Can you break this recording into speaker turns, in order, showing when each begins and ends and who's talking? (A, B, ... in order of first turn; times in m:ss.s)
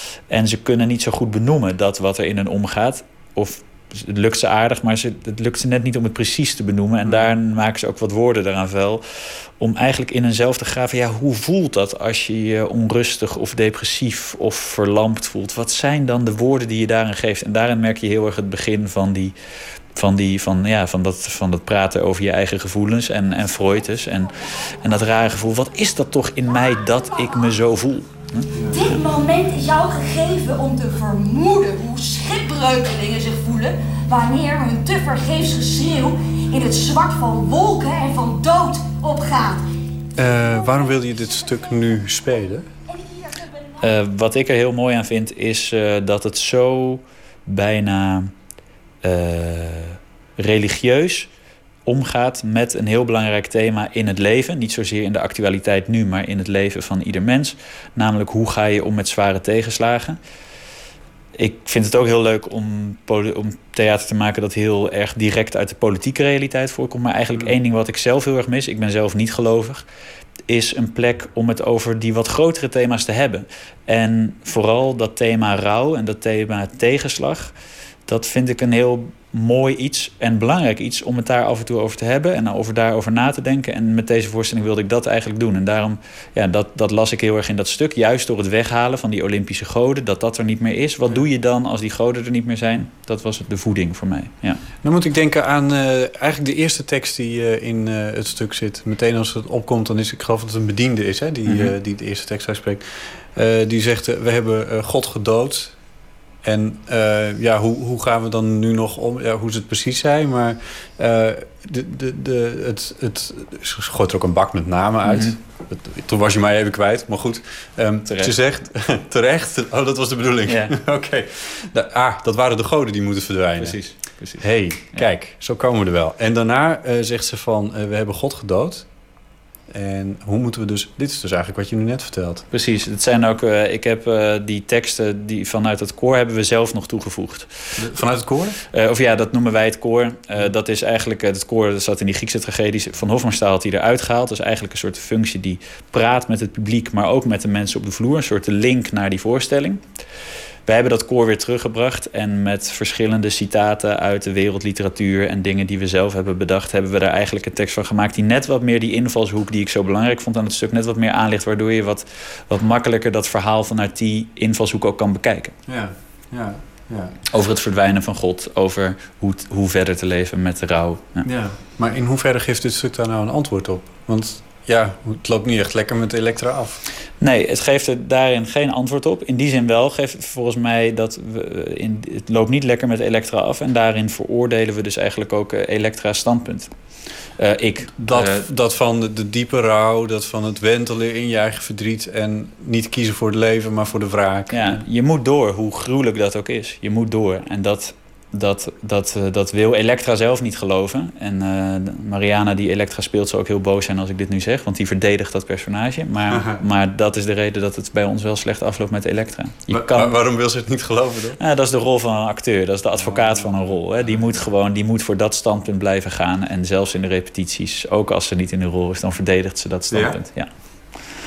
0:00.3-0:09.0 A
0:07.0-0:07.3 B
0:09.6-0:19.3 A
0:20.0-0:28.5 A
0:28.5-0:29.0 B
0:28.8-0:39.6 C
0:40.2-0:42.7 B
0:43.8-0:48.3 A
0:49.0-0:51.3 A
0:51.8-1:00.2 A
1:01.4-1:09.8 A
1:10.5-1:17.5 A
1:18.1-1:34.6 A
1:34.8-1:45.8 B
1:41.4-1:41.7 A
1:46.4-2:03.8 B
1:55.0-1:55.4 A
1:58.0-1:58.4 A
2:00.4-2:00.7 A
2:03.6-2:05.0 A
2:04.4-2:08.9 B
2:09.7-2:12.4 B
2:12.5-2:17.8 A
2:17.8-2:18.6 B
2:18.7-2:29.8 A
2:30.7-2:45.5 A
2:45.7-2:47.2 B
2:47.3-2:51.2 A
2:51.2-2:56.8 B
2:57.2-3:06.7 A
3:07.4-3:08.4 A
3:08.0-3:14.8 B
3:14.5-3:30.2 A
3:26.3-3:26.6 B
3:29.7-3:31.4 B
3:31.4-3:40.5 A
3:33.0-3:34.5 B
3:39.9-3:40.2 B